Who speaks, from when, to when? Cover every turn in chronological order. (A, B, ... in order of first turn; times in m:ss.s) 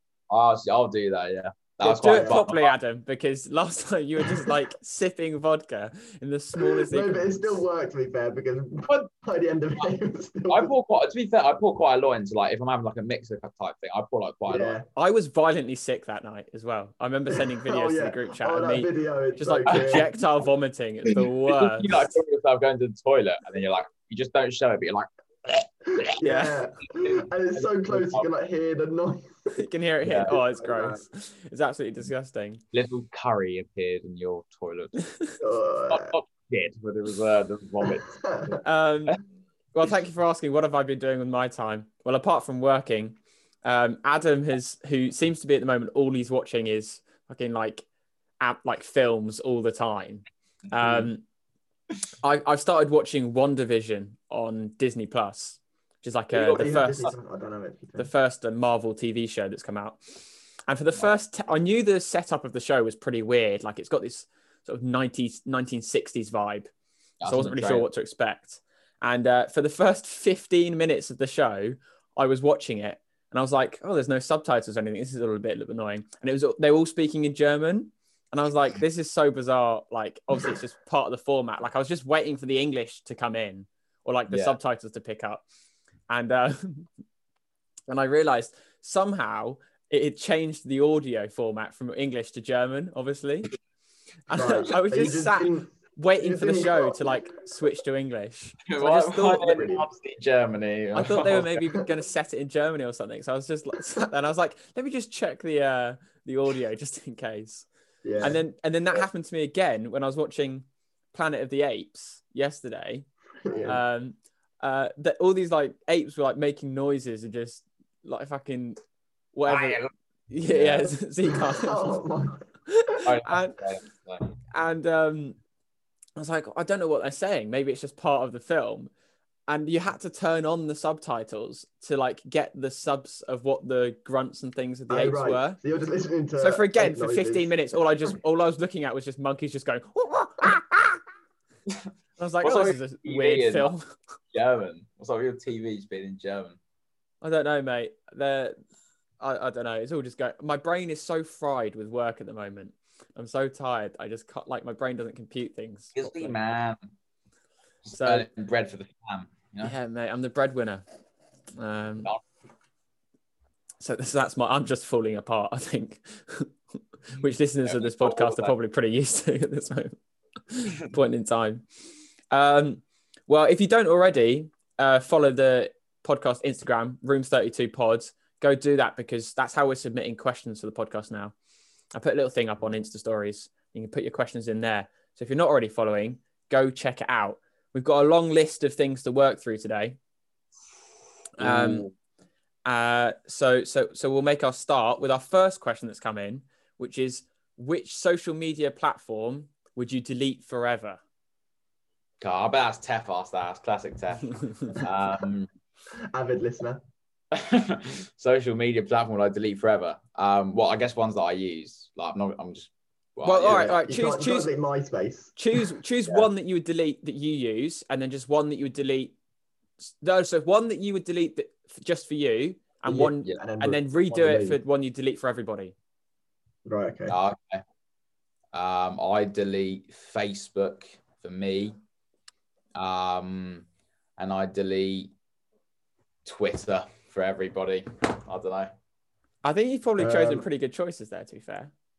0:00.3-0:02.7 A
0:01.8-0:07.6 B
0:02.0-0:02.4 C
0:06.6-0:10.7 C
0:10.5-0:14.8 A
0:14.5-0:14.9 C
0:15.0-0:22.0 B
0:17.5-0:20.1 C
0:19.7-0:20.1 A
0:21.5-0:26.2 A
0:26.1-0:29.6 C
0:26.2-0:26.6 B
0:26.9-0:28.3 A
0:29.5-0:32.6 B
0:30.0-0:30.4 A
0:30.2-0:31.0 C
0:32.7-0:35.0 A
0:35.4-0:36.2 C
0:35.9-0:38.1 A
0:37.8-0:38.6 C
0:38.6-0:39.2 B
0:39.7-0:47.9 B
0:48.4-0:51.2 B
0:52.2-0:57.1 B
0:56.4-0:56.7 A
0:56.4-0:58.1 C
0:58.0-1:06.7 B
1:07.2-1:07.9 A
1:07.2-1:25.4 B
1:24.3-1:24.6 A
1:26.1-1:26.9 B
1:27.9-1:33.5 B
1:34.3-1:39.5 B
1:34.3-1:37.2 C
1:38.7-1:41.6 A
1:39.4-1:39.8 C
1:40.9-1:47.7 B
1:48.0-1:48.4 C
1:48.2-1:53.1 B
1:53.4-1:53.8 C
1:53.7-1:58.8 B
1:59.4-2:02.0 B
1:59.5-1:59.9 A
2:00.5-2:00.9 A
2:01.3-2:02.4 C
2:02.7-2:03.6 B
2:03.0-2:04.4 A
2:04.5-2:05.4 B
2:06.2-2:08.9 B
2:09.5-2:15.6 B
2:14.9-2:17.5 C
2:16.4-2:21.0 B
2:22.2-2:23.9 B
2:22.4-2:23.7 A
2:24.3-2:26.6 A
2:27.2-2:28.6 B
2:29.2-2:36.4 B
2:36.0-2:36.8 A
2:37.9-2:39.7 A
2:37.9-2:38.3 B
2:39.6-2:40.8 B
2:41.6-2:42.1 B
2:43.8-2:46.5 B
2:47.1-2:50.0 B
2:47.7-2:48.5 A
2:50.5-2:51.6 B
2:52.3-3:01.3 B
3:01.9-3:10.0 B
3:11.4-3:11.9 B
3:11.4-3:11.9 A
3:12.7-3:21.0 B
3:22.2-3:25.5 A
3:26.1-3:26.8 C
3:27.3-3:33.8 A
3:33.2-3:34.5 B
3:33.4-3:35.4 C
3:35.4-3:39.2 B
3:39.8-3:45.7 B
3:42.8-3:44.6 C
3:46.7-3:47.2 C
3:47.1-3:47.6 A
3:48.5-3:51.8 A
3:52.8-3:53.7 A
3:54.2-3:55.1 A
3:56.2-3:58.7 A
3:59.4-4:01.7 B
4:00.0-4:00.5 C